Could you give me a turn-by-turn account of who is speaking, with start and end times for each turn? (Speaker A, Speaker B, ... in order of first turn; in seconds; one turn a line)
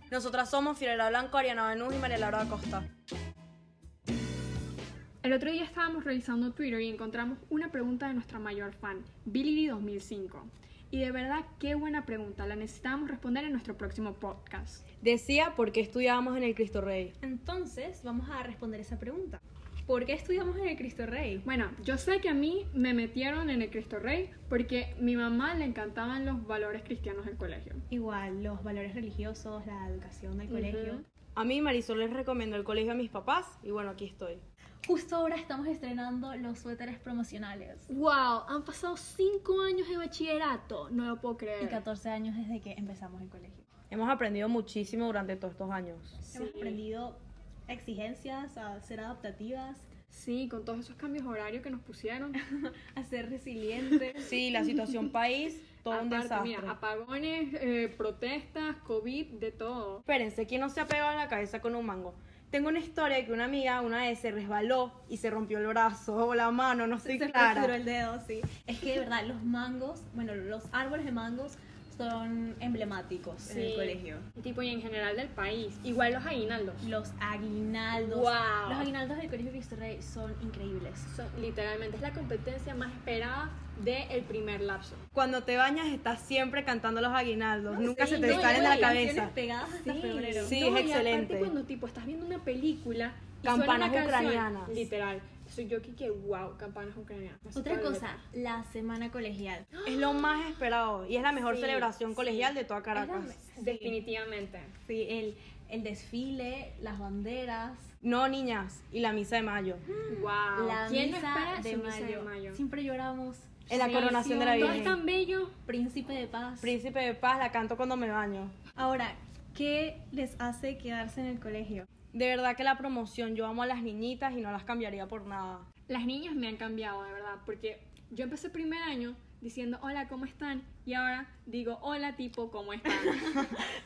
Speaker A: 0.1-2.9
Speaker B: 5.2-14.8
Speaker A: 15.0-17.1
Speaker C: 17.2-21.4
Speaker B: 21.4-27.8
Speaker C: 27.9-31.0
Speaker B: 30.5-31.0
Speaker A: 31.4-34.4
Speaker C: 34.9-37.9
Speaker B: 37.9-41.8
Speaker C: 41.6-43.6
Speaker A: 43.9-46.2
Speaker C: 46.2-49.9
Speaker B: 46.3-46.8
Speaker B: 50.1-52.4
Speaker C: 52.4-55.1
Speaker A: 54.2-56.7
Speaker B: 55.9-60.0
Speaker A: 60.1-67.7
Speaker C: 67.0-74.2
Speaker B: 73.4-76.9
Speaker C: 76.8-81.1
Speaker B: 77.9-78.9
Speaker B: 81.1-85.0
Speaker A: 85.1-89.3
Speaker C: 87.8-90.6
Speaker B: 88.0-89.0
Speaker B: 89.6-98.2
Speaker A: 90.4-91.5
Speaker A: 93.4-94.7
Speaker C: 97.5-100.3
Speaker A: 99.8-103.4
Speaker B: 101.3-102.5
Speaker C: 102.9-104.0
Speaker B: 103.5-104.7
Speaker C: 104.8-107.9
Speaker A: 108.0-109.8
Speaker C: 109.9-115.0
Speaker B: 110.1-112.6
Speaker A: 113.7-115.0
Speaker B: 113.7-115.5
Speaker C: 115.7-116.8
Speaker A: 116.6-118.5
Speaker C: 118.8-121.9
Speaker A: 122.1-125.7
Speaker B: 125.9-133.2
Speaker C: 133.3-133.6